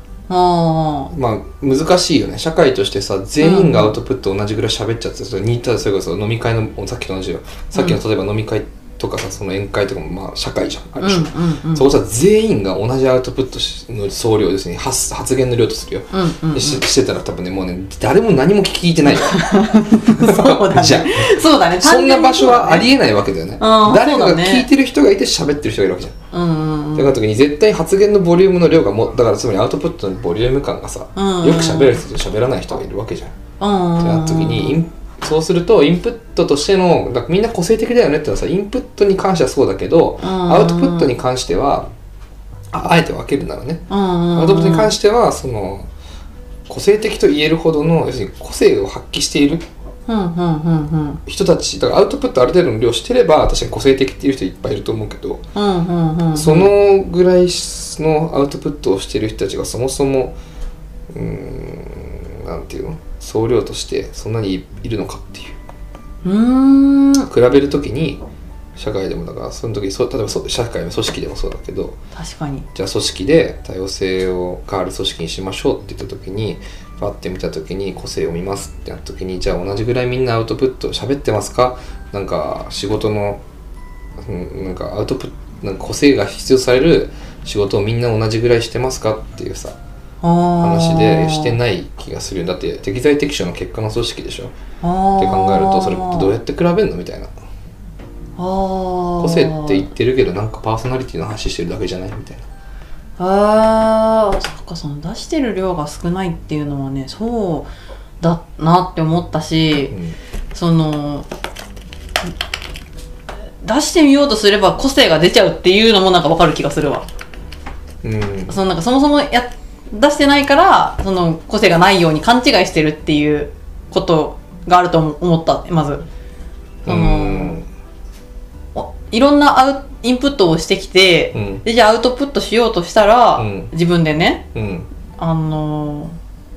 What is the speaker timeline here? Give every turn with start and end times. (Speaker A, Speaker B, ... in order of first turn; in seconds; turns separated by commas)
Speaker A: 0.3-1.1, Speaker B: 1.1-26.2, Speaker A: 3.4-4.0, Speaker A: 11.0-11.9, Speaker A: 16.1-16.8, Speaker A: 19.1-22.9, Speaker A: 23.6-24.7, Speaker A: 26.3-27.2, Speaker B: 27.0-33.4, Speaker A: 31.2-32.0, Speaker A: 33.6-34.8, Speaker B: 34.0-41.9, Speaker A: 40.2-41.1, Speaker B: 42.7-45.9, Speaker A: 43.9-44.9, Speaker B: 46.7-49.6, Speaker A: 50.1-51.2, Speaker B: 51.3-55.4, Speaker A: 55.5-56.7, Speaker B: 56.4-60.4, Speaker B: 61.1-65.6, Speaker A: 66.2-67.3, Speaker B: 67.3-68.2, Speaker B: 68.8-72.0, Speaker A: 72.2-72.7, Speaker B: 72.8-83.4, Speaker B: 84.2-89.8, Speaker A: 90.2-91.5, Speaker B: 90.6-94.5, Speaker A: 94.8-96.3, Speaker B: 95.2-97.3, Speaker A: 98.4-99.8, Speaker B: 99.2-102.5, Speaker A: 103.2-107.7, Speaker A: 108.2-110.0, Speaker A: 110.5-111.3, Speaker A: 113.6-117.1, Speaker B: 118.0-118.6, Speaker A: 118.5-126.0, Speaker A: 126.9-127.6, Speaker B: 126.9-127.7, Speaker A: 128.8-134.4, Speaker B: 131.3-131.6, Speaker B: 133.4-133.7, Speaker B: 134.6-134.9, Speaker A: 135.2-136.2